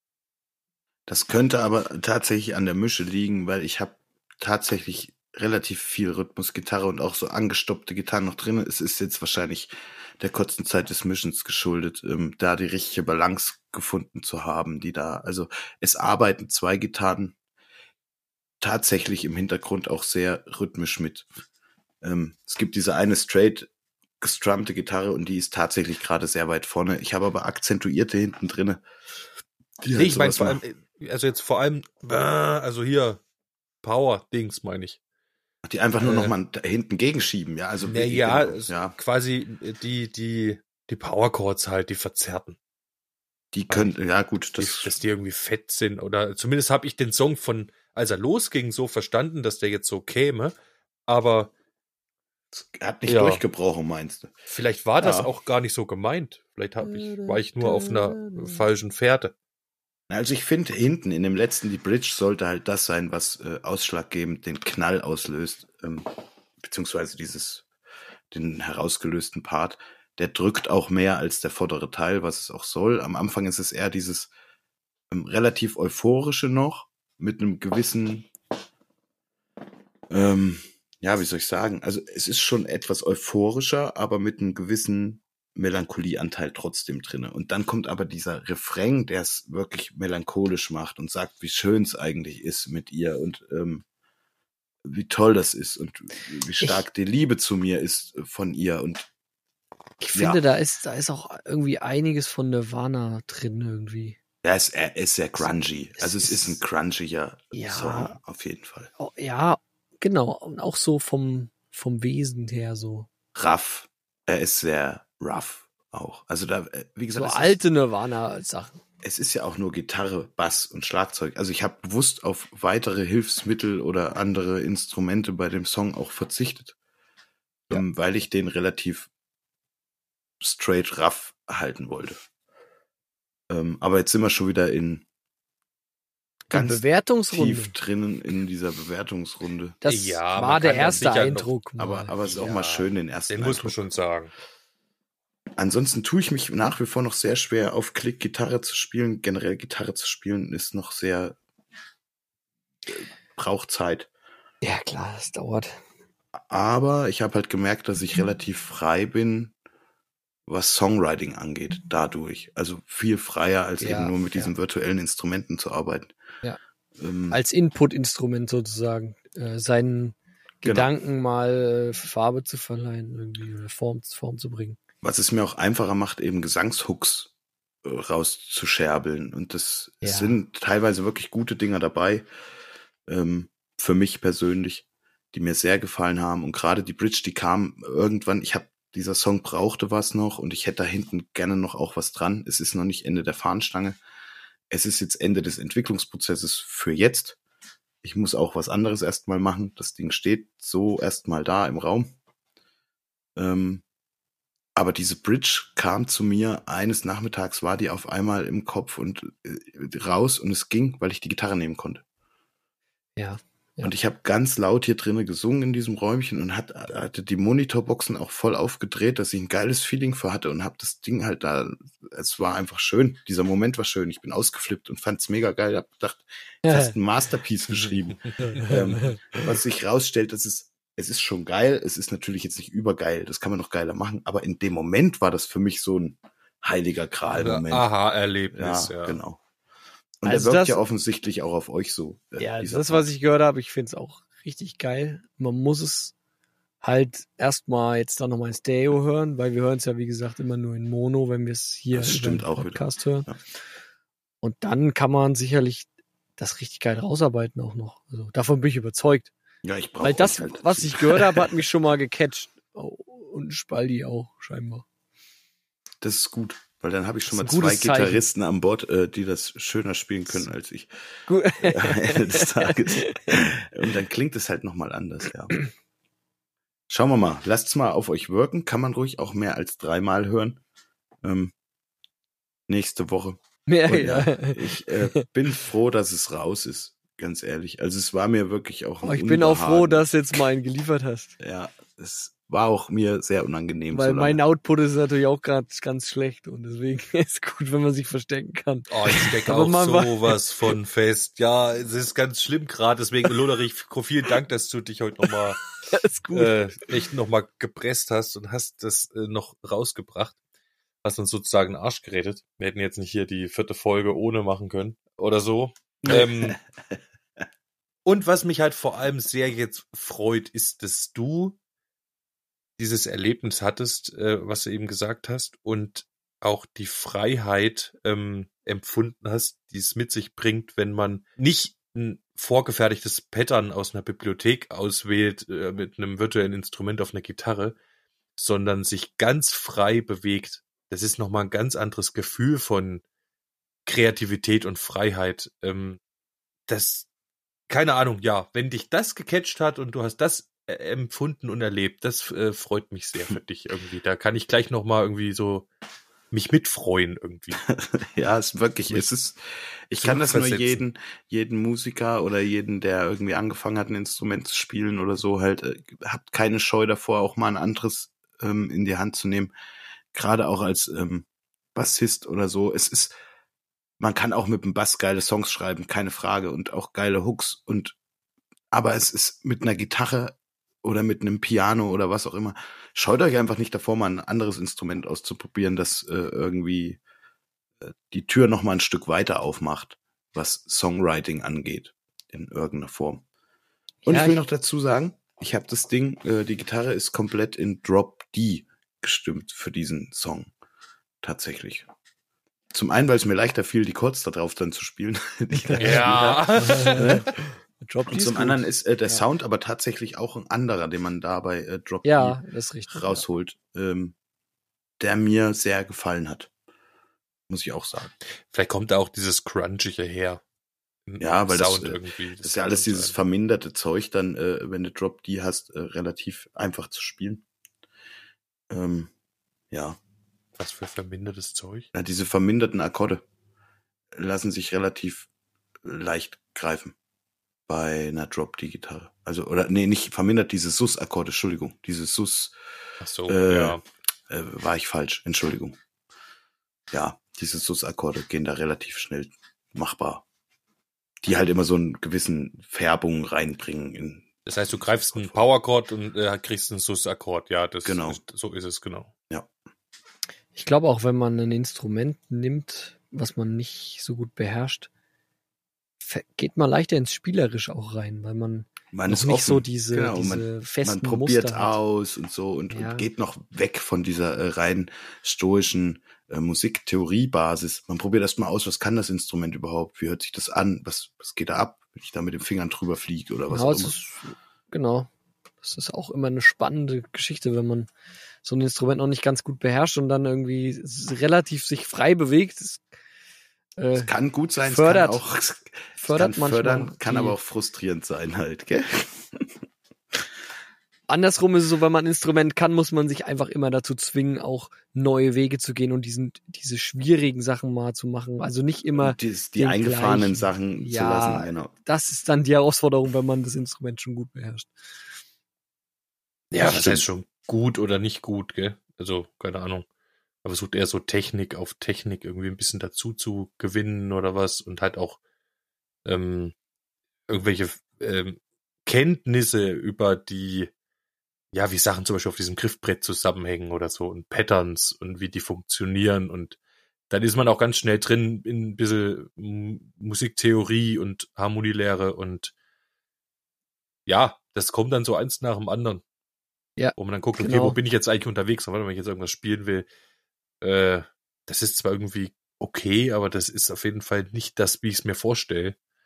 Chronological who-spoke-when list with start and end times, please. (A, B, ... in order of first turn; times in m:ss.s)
0:01.1-0:17.4 A
0:18.6-0:21.3 A
0:22.0-0:23.7 A
0:24.2-0:28.8 A
0:29.8-0:30.6 A
0:29.9-0:33.2 B
0:33.8-0:35.0 B
0:35.6-0:39.0 A
0:36.0-0:36.3 B
0:37.8-0:42.6 B
0:43.5-0:44.9 A
0:44.6-0:50.6 B
0:51.1-0:51.5 B
0:52.5-0:54.3 A
0:53.1-0:53.4 B
0:54.5-0:59.3 B
0:55.0-0:55.3 A
0:56.8-0:58.6 C
1:00.1-1:06.1 A
1:06.6-1:07.6 A
1:08.3-1:14.3 A
1:15.1-1:18.3 A
1:20.1-1:33.8 A
1:34.8-1:39.1 A
1:40.0-1:44.2 C
1:40.2-1:40.4 A
1:44.4-1:48.9 A
1:46.0-1:46.6 C
1:47.5-1:48.2 C
1:49.0-1:53.1 C
1:53.4-1:57.6 A
1:57.1-1:58.8 C
1:59.0-2:06.8 A
2:07.7-2:09.1 A
2:10.4-2:12.2 A
2:13.5-2:15.0 A
2:16.5-2:17.7 C
2:16.5-2:19.8 A
2:19.8-2:22.1 C
2:19.9-2:21.5 B
2:21.8-2:23.8 A
2:22.2-2:24.3 B
2:25.6-2:31.4 A
2:32.9-2:34.1 A
2:34.6-2:35.8 C
2:36.4-2:39.5 A
2:40.5-2:46.1 A
2:43.8-2:44.5 C
2:47.0-2:47.4 A
2:47.3-2:54.8 C
2:55.0-2:57.3 A
2:57.8-3:02.3 A
3:00.0-3:00.4 C
3:03.1-3:14.0 A
3:14.7-3:17.4 A
3:18.0-3:22.1 A
3:23.4-3:23.8 A
3:24.8-3:32.0 A
3:33.2-3:33.9 C
3:33.8-3:57.9 A
3:46.6-3:47.0 C
3:48.1-3:48.4 B
3:48.4-3:49.4 C
3:57.3-3:59.2 B
3:58.5-3:59.4 A
4:00.2-4:03.1 A
4:00.2-4:00.8 C
4:02.4-4:06.1 C
4:06.8-4:13.3 C
4:11.9-4:13.4 A
4:14.4-4:15.9 C
4:16.4-4:19.3 C
4:19.6-4:21.5 A
4:20.0-4:24.8 C
4:26.0-4:30.9 A
4:27.3-4:28.2 C
4:31.3-4:33.4 C
4:31.6-4:35.6 A
4:36.9-4:40.6 A
4:41.2-4:41.5 A
4:42.7-4:50.1 A
4:43.7-4:45.2 C
4:49.0-4:51.3 C
4:51.4-4:54.4 A
4:53.9-5:00.4 C
4:58.9-5:05.6 B
5:05.9-5:06.6 C
5:06.3-5:10.4 B
5:11.0-5:16.6 B
5:16.1-5:16.6 A
5:18.1-5:21.6 B
5:22.8-5:37.8 B
5:38.4-5:43.0 B
5:43.9-5:46.0 B
5:46.7-5:47.1 B
5:47.7-5:55.7 B
5:56.3-5:57.6 B
5:57.7-5:59.4 A
5:59.9-6:09.5 A
6:00.0-6:00.8 B
6:10.1-6:13.1 A
6:14.0-6:18.0 A
6:18.7-6:27.0 A
6:27.8-6:33.2 A
6:34.0-6:34.4 C
6:34.1-6:40.5 A
6:41.2-6:41.9 A
6:42.7-6:47.3 A
6:45.5-6:49.2 C
6:45.8-6:47.2 B
6:48.1-6:54.1 A
6:52.0-6:53.2 C
6:55.0-6:56.5 A
6:57.5-6:58.1 A
6:58.4-7:00.4 B
7:01.1-7:03.2 B
7:01.2-7:07.4 A
7:08.7-7:09.1 A
7:09.7-7:10.0 A
7:10.6-7:11.9 B
7:11.9-7:13.2 A
7:14.2-7:15.3 A
7:15.8-7:17.0 A
7:17.7-7:22.5 A
7:23.0-7:23.8 B
7:23.3-7:25.8 A
7:26.9-7:30.2 A
7:31.2-7:35.4 A
7:34.5-7:39.1 B
7:37.8-7:38.2 A
7:40.6-7:44.9 C
7:46.0-7:51.8 C
7:48.9-8:04.0 A
7:52.7-7:53.1 C
8:03.5-8:05.1 C
8:05.6-8:07.9 C
8:08.4-8:12.8 C
8:13.8-8:14.1 C
8:14.0-8:19.5 A
8:14.6-8:15.2 C
8:16.0-8:17.4 C
8:21.1-8:34.7 C
8:28.9-8:31.7 A
8:36.5-8:39.9 B
8:36.6-8:37.1 A
8:40.4-8:45.2 B
8:46.0-8:46.5 B
8:47.3-8:50.7 B
8:51.5-8:56.6 B
8:57.1-9:02.5 B
9:04.1-9:06.0 B
9:06.8-9:07.8 C
9:07.0-9:09.9 B
9:10.6-9:15.8 B